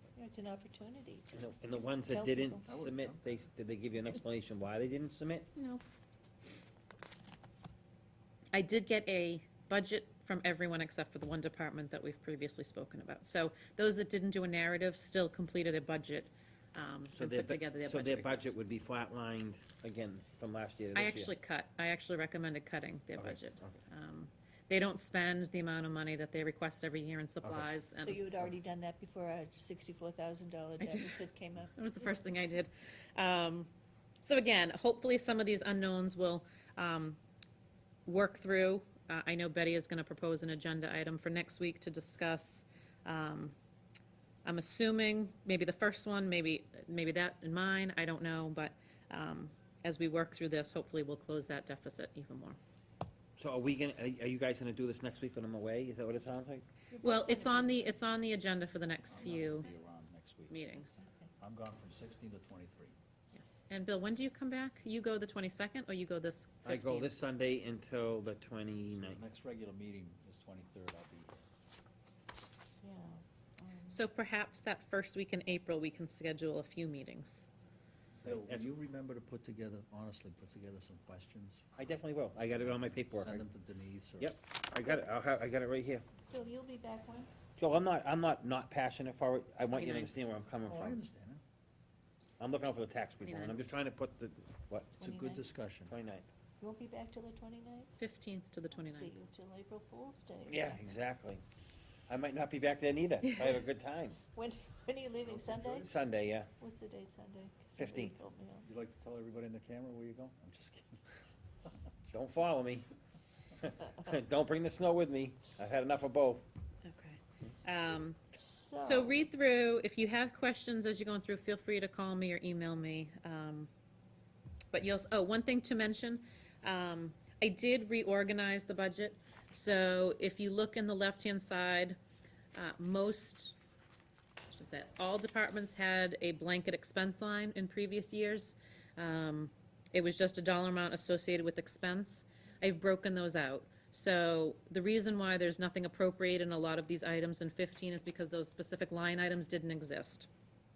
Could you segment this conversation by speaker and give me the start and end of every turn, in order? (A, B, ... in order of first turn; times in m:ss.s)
0:00.2-0:01.4 A
0:01.3-0:05.5 B
0:02.0-0:02.7 A
0:02.7-0:03.3 C
0:05.6-0:05.8 D
0:08.5-0:18.5 D
0:17.2-0:21.3 B
0:21.0-0:28.3 D
0:23.2-0:23.7 B
0:28.0-0:31.7 A
0:30.8-0:31.2 D
0:31.8-0:33.7 D
0:34.2-0:37.2 D
0:38.0-0:43.6 D
0:44.4-0:52.6 D
0:53.4-0:56.7 B
0:56.9-0:57.8 A
0:57.0-0:59.7 D
0:59.1-1:00.6 C
1:00.5-1:01.0 D
1:01.0-1:01.3 A
1:01.4-1:03.0 C
1:03.3-1:07.1 D
1:06.6-1:09.2 B
1:08.9-1:11.4 C
1:12.8-1:14.0 A
1:13.9-1:17.4 D
1:18.2-1:21.7 C
1:18.2-1:18.7 B
1:21.8-1:23.4 B
1:23.1-1:24.3 C
1:24.2-1:26.0 B
1:26.3-1:27.3 A
1:27.6-1:31.0 B
1:29.7-1:30.1 D
1:30.7-1:31.4 C
1:32.4-1:35.0 B
1:33.2-1:33.6 D
1:35.0-1:35.9 C
1:35.0-1:35.5 A
1:35.9-1:36.3 B
1:36.6-1:37.9 A
1:38.0-1:39.1 D
1:38.8-1:40.8 A
1:40.5-1:41.4 B
1:42.1-1:44.2 B
1:44.3-1:45.9 A
1:45.3-1:45.9 C
1:45.8-1:46.5 B
1:46.6-1:48.7 A
1:47.8-1:48.2 B
1:48.6-1:51.0 C
1:52.1-1:52.9 B
1:53.6-1:56.4 B
1:56.8-1:58.2 D
1:58.4-1:59.1 A
1:58.8-2:03.7 D
2:04.7-2:12.0 D
2:12.5-2:13.5 D
2:14.5-2:30.3 D